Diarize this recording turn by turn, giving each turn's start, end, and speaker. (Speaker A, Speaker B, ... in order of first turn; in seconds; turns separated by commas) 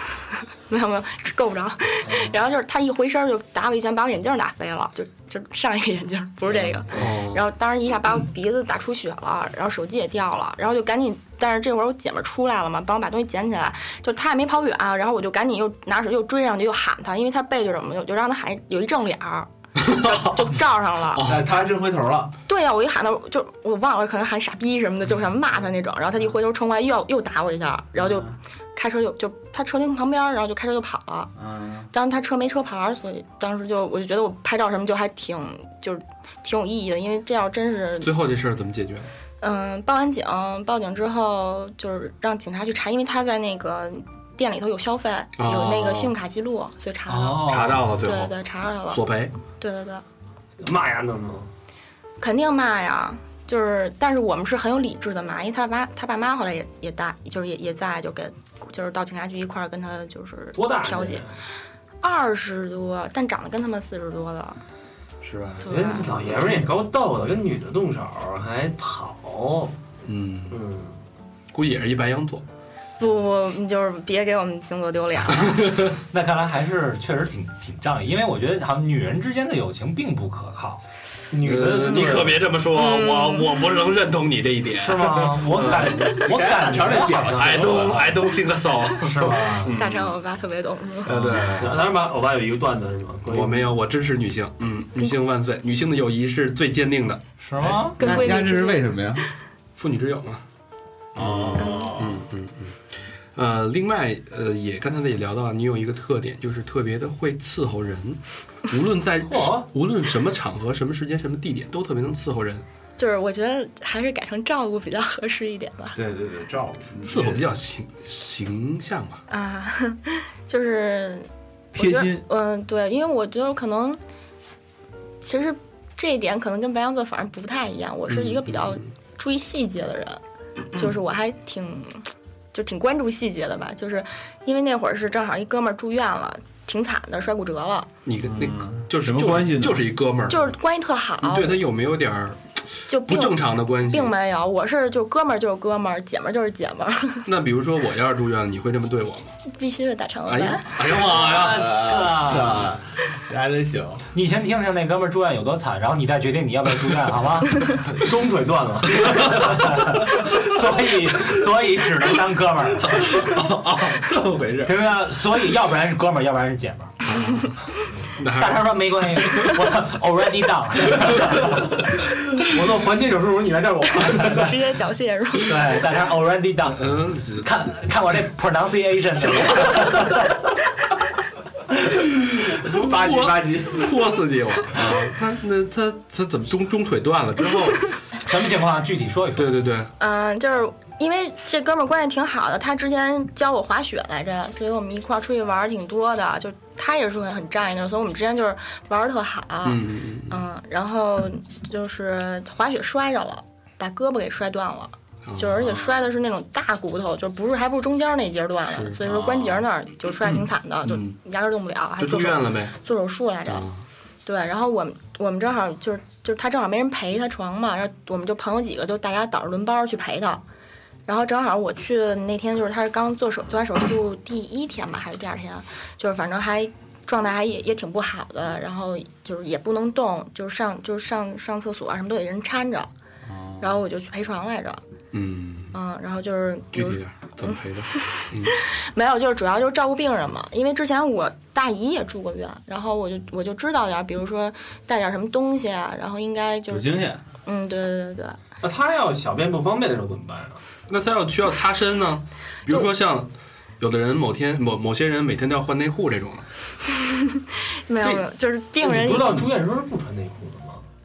Speaker A: 0.2-21.3, Speaker B: 2.0-2.3, Speaker B: 6.5-7.0, Speaker C: 6.9-7.5, Speaker C: 19.9-20.2, Speaker C: 21.1-21.4, Speaker D: 21.2-22.3, Speaker A: 22.5-31.3, Speaker D: 27.9-28.4, Speaker D: 31.4-31.9, Speaker A: 31.9-38.1, Speaker C: 38.0-39.1, Speaker A: 39.4-49.0, Speaker C: 45.4-46.1, Speaker E: 47.1-47.9, Speaker C: 47.4-48.3, Speaker C: 48.9-49.3, Speaker A: 49.6-50.0, Speaker B: 50.6-51.5, Speaker A: 52.2-61.2, Speaker B: 60.5-61.3, Speaker A: 62.0-64.6, Speaker C: 65.2-65.7, Speaker A: 65.6-66.1, Speaker B: 65.6-69.7, Speaker C: 70.0-70.6, Speaker B: 70.5-70.9, Speaker C: 71.5-72.4, Speaker A: 73.0-75.9, Speaker E: 76.1-80.8, Speaker B: 81.3-82.5, Speaker C: 81.4-86.4, Speaker A: 82.7-83.7, Speaker E: 84.8-88.1, Speaker B: 85.5-86.0, Speaker D: 85.6-88.0, Speaker C: 87.3-90.2, Speaker E: 89.0-89.7, Speaker A: 89.7-91.2, Speaker C: 91.0-91.8, Speaker B: 91.3-93.7, Speaker C: 93.3-97.2, Speaker E: 97.4-98.0, Speaker D: 97.6-99.3, Speaker A: 98.0-99.2, Speaker C: 99.8-100.4, Speaker D: 101.1-102.2, Speaker C: 101.2-112.6, Speaker A: 101.6-101.9, Speaker B: 109.2-109.7, Speaker A: 113.0-116.0, Speaker D: 115.9-117.4, Speaker C: 117.0-119.2, Speaker A: 119.3-124.0, Speaker D: 121.7-122.2, Speaker A: 125.2-130.2, Speaker C: 128.1-128.8, Speaker A: 130.7-137.9, Speaker C: 138.1-140.6, Speaker D: 138.3-139.8, Speaker A: 140.3-141.6, Speaker C: 141.2-144.1, Speaker A: 142.9-147.3, Speaker C: 147.2-149.3, Speaker A: 149.5-150.7, Speaker C: 150.2-151.7, Speaker D: 150.8-154.1, Speaker E: 151.1-152.6, Speaker E: 154.1-157.8, Speaker B: 157.9-159.4, Speaker E: 158.9-163.3, Speaker C: 163.1-164.0, Speaker D: 163.4-164.7, Speaker E: 164.6-167.0, Speaker C: 167.1-167.5, Speaker C: 168.2-168.7, Speaker E: 168.3-171.8, Speaker B: 172.4-174.5, Speaker A: 174.0-175.6, Speaker E: 175.4-180.4, Speaker C: 176.6-177.5, Speaker D: 182.6-183.9, Speaker C: 182.7-187.9, Speaker E: 188.2-189.6, Speaker C: 189.3-189.9, Speaker A: 190.0-213.7, Speaker C: 199.6-200.4, Speaker C: 205.2-205.8, Speaker D: 209.0-209.6, Speaker C: 210.2-211.2, Speaker C: 212.0-212.7, Speaker C: 213.4-213.8, Speaker A: 214.2-220.4, Speaker A: 221.1-232.9, Speaker D: 233.2-233.8, Speaker A: 233.6-234.8, Speaker C: 235.1-235.8, Speaker A: 235.7-248.4, Speaker C: 236.7-238.5, Speaker D: 246.7-247.2, Speaker B: 248.6-250.6, Speaker C: 250.9-256.5, Speaker A: 257.1-259.5, Speaker B: 258.8-260.8